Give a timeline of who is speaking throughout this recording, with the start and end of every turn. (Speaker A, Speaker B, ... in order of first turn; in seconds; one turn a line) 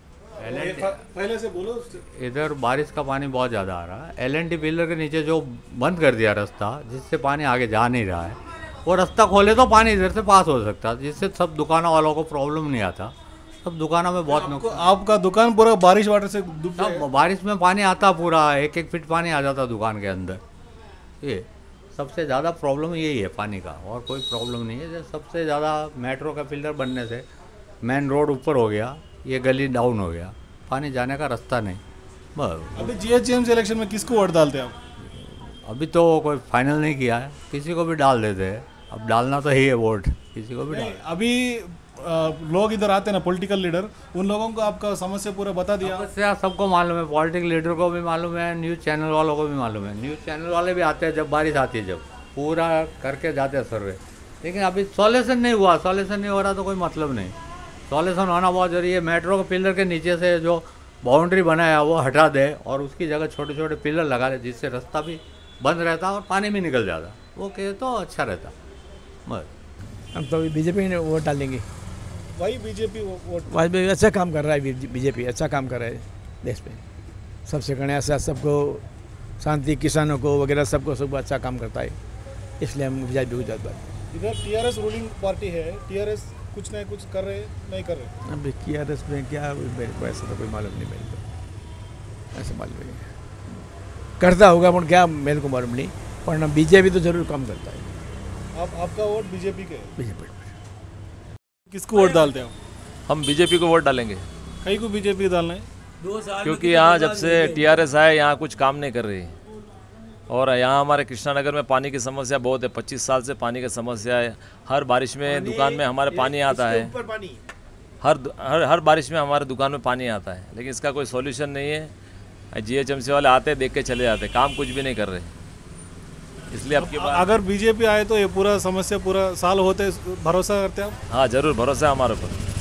Speaker A: 0.4-0.9
Speaker B: 0.5-2.0
Speaker A: 2.2-14.8
Speaker B: 14.3-17.0
Speaker A: 16.8-20.4
Speaker A: 21.2-27.2
Speaker A: 27.8-31.8
Speaker A: 32.4-32.9
Speaker B: 32.8-34.7
Speaker A: 35.8-41.0
Speaker B: 40.7-46.1
Speaker A: 45.8-57.3
Speaker A: 57.9-68.5
Speaker C: 70.2-71.7
Speaker B: 72.4-73.5
Speaker C: 73.5-76.8
Speaker C: 77.5-78.8
Speaker C: 79.4-82.0
Speaker C: 82.6-83.8
Speaker B: 84.1-88.1
Speaker C: 88.3-91.2
Speaker C: 92.3-93.0
Speaker C: 94.2-97.8
Speaker B: 98.5-99.9
Speaker C: 100.0-100.5
Speaker B: 101.7-102.5
Speaker D: 103.1-104.2
Speaker B: 104.6-105.7
Speaker D: 106.4-109.3
Speaker C: 106.7-107.8
Speaker D: 110.3-116.9
Speaker D: 118.0-121.9
Speaker D: 122.6-125.3
Speaker D: 126.5-127.2
Speaker B: 126.8-130.9
Speaker D: 131.1-132.3